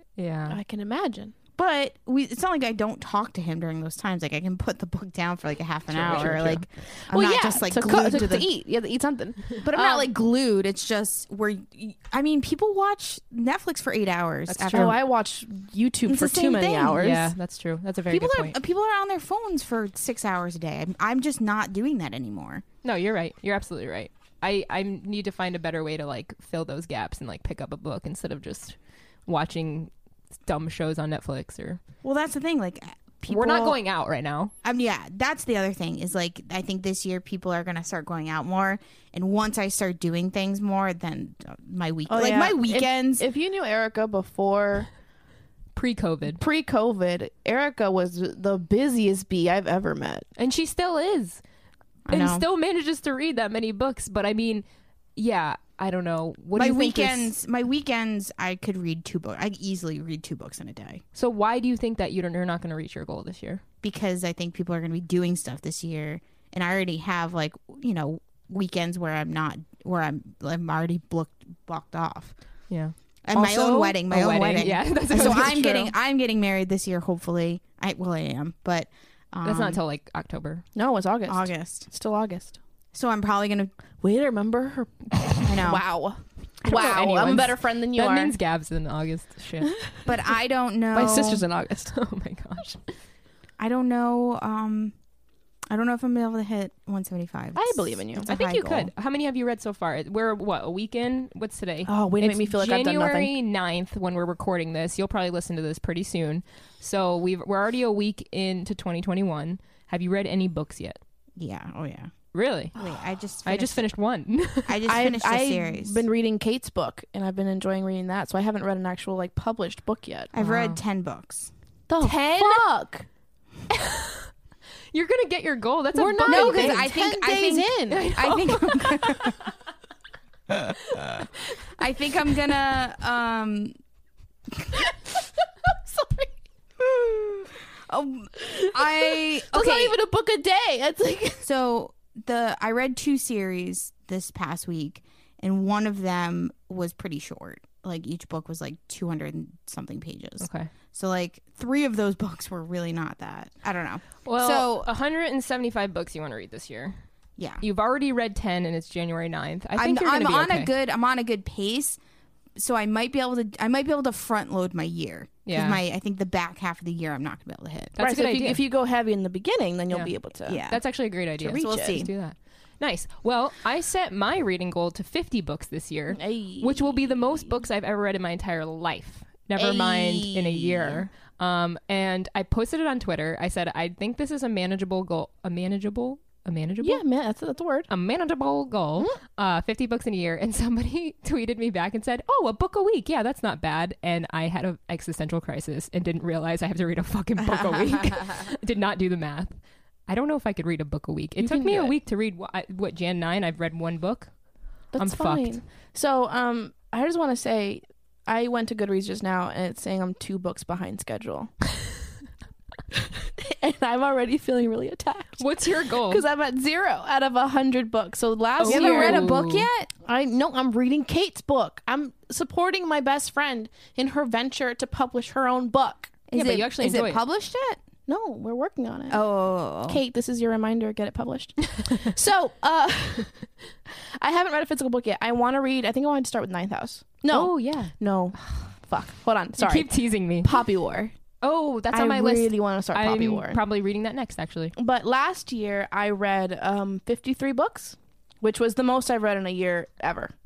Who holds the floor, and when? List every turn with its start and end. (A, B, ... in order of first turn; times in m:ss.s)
0:00.2-0:00.6 A
0:00.5-0:01.4 B
0:01.6-0:08.5 C
0:06.0-0:10.1 B
0:06.0-0:06.6 A
0:09.6-0:15.0 C
0:14.5-0:15.0 A
0:14.7-0:17.3 B
0:16.1-0:17.1 C
0:17.0-0:18.5 A
0:18.1-0:22.6 C
0:22.8-0:29.9 A
0:30.4-0:31.8 A
0:32.0-0:33.8 C
0:33.3-0:34.5 A
0:34.6-0:43.2 C
0:42.1-0:44.9 B
0:45.7-0:46.4 A
0:46.3-0:50.2 B
0:50.4-0:51.4 A
0:52.0-0:52.4 C
0:52.1-0:54.6 A
0:55.2-0:57.3 A
0:56.5-1:01.0 C
1:01.1-1:03.6 A
1:03.8-1:12.3 C
1:12.7-1:15.9 A
1:13.2-1:19.8 C
1:15.1-1:15.7 B
1:19.4-1:20.6 A
1:20.7-1:22.6 B
1:21.3-1:21.9 C
1:22.9-1:23.7 C
1:24.0-1:28.3 B
1:25.4-1:25.8 C
1:26.6-1:29.7 A
1:30.0-1:31.5 C
1:30.9-1:31.9 B
1:31.9-1:32.8 A
1:33.6-1:34.9 C
1:35.7-1:38.9 C
1:37.5-1:38.3 B
1:38.2-1:51.0 A
1:41.8-1:43.3 B
1:51.4-1:52.1 C
1:52.3-1:52.7 A
1:52.8-1:53.9 C
1:53.4-1:54.8 A
1:54.6-1:56.0 C
1:54.9-2:00.3 B
2:00.3-2:01.5 C
2:00.4-2:00.8 A
2:01.9-2:03.0 B
2:02.0-2:02.6 A
2:04.9-2:06.9 A
2:05.9-2:08.2 B
2:06.2-2:09.4 C
2:07.9-2:09.3 A
2:10.5-2:13.7 C
2:15.8-2:16.3 B
2:16.8-2:20.0 C
2:18.4-2:21.4 B
2:21.4-2:34.9 C
2:30.4-2:30.7 A
2:34.2-2:37.0 A
2:37.4-2:37.6 C
2:37.6-2:40.7 A
2:39.8-2:42.0 C
2:42.6-2:47.9 C
2:45.4-2:45.8 A
2:47.9-2:48.6 A
2:48.0-2:50.6 B
2:50.4-2:52.1 C
2:50.7-3:07.0 A
2:51.6-2:52.0 B
2:56.1-2:57.4 B
2:59.6-3:01.0 C
3:06.8-3:07.9 B
3:07.9-3:19.5 A
3:20.1-3:24.3 A
3:21.4-3:21.9 B
3:24.9-3:31.5 B
3:25.0-3:25.6 A
3:32.9-3:39.3 B
3:35.4-3:36.2 A
3:38.6-3:39.7 A
3:38.6-3:39.9 C
3:40.0-3:46.2 B
3:46.3-3:47.8 C
3:46.3-3:47.2 A
3:48.0-3:49.2 B
3:49.1-3:50.0 C
3:49.8-4:01.1 B
3:57.3-3:57.9 A
3:59.6-4:00.5 A
4:01.4-4:04.7 A
4:01.9-4:03.6 B
4:04.8-4:10.3 B